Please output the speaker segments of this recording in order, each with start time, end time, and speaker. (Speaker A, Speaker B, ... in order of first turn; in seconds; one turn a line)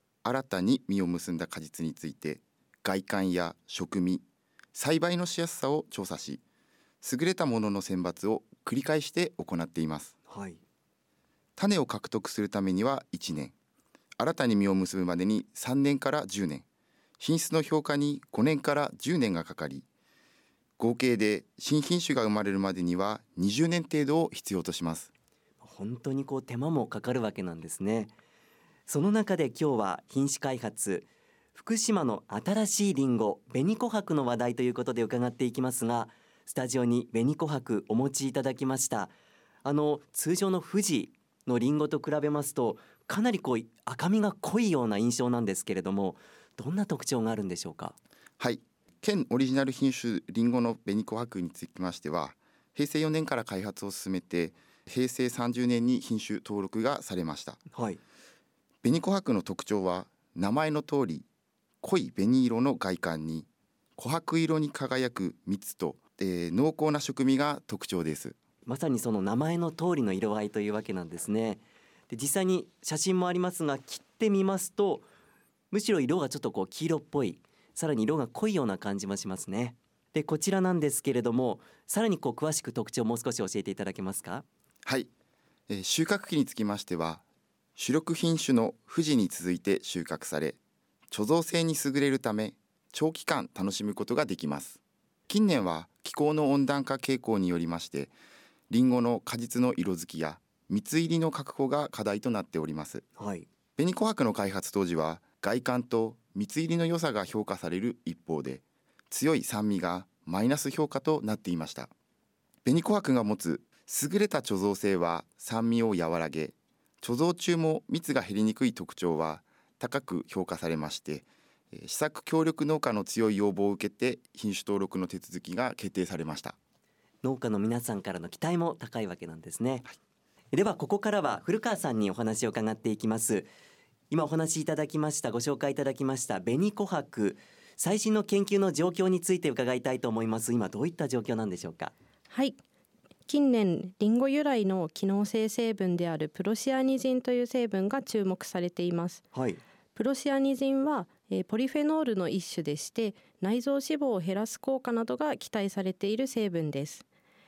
Speaker A: 0.2-6.4
Speaker A: 7.0-10.1
Speaker B: 10.3-10.6
Speaker A: 11.6-13.5
Speaker A: 14.2-16.6
Speaker A: 17.2-19.9
Speaker A: 20.8-25.1
Speaker B: 25.6-28.1
Speaker B: 28.9-39.1
Speaker B: 39.6-48.0
Speaker A: 48.4-57.6
Speaker B: 57.7-58.0
Speaker A: 58.8-61.2
Speaker A: 61.8-68.3
Speaker B: 68.7-75.1
Speaker B: 75.7-84.4
Speaker A: 84.8-85.1
Speaker A: 85.7-87.2
Speaker A: 87.8-90.6
Speaker A: 91.1-98.1
Speaker A: 98.7-103.0
Speaker B: 103.2-103.5
Speaker A: 103.8-111.9
Speaker A: 112.6-126.6
Speaker B: 127.2-129.9
Speaker B: 130.5-133.5
Speaker B: 134.1-141.9
Speaker C: 142.3-142.6
Speaker C: 143.3-149.2
Speaker B: 149.3-149.6
Speaker C: 149.9-157.0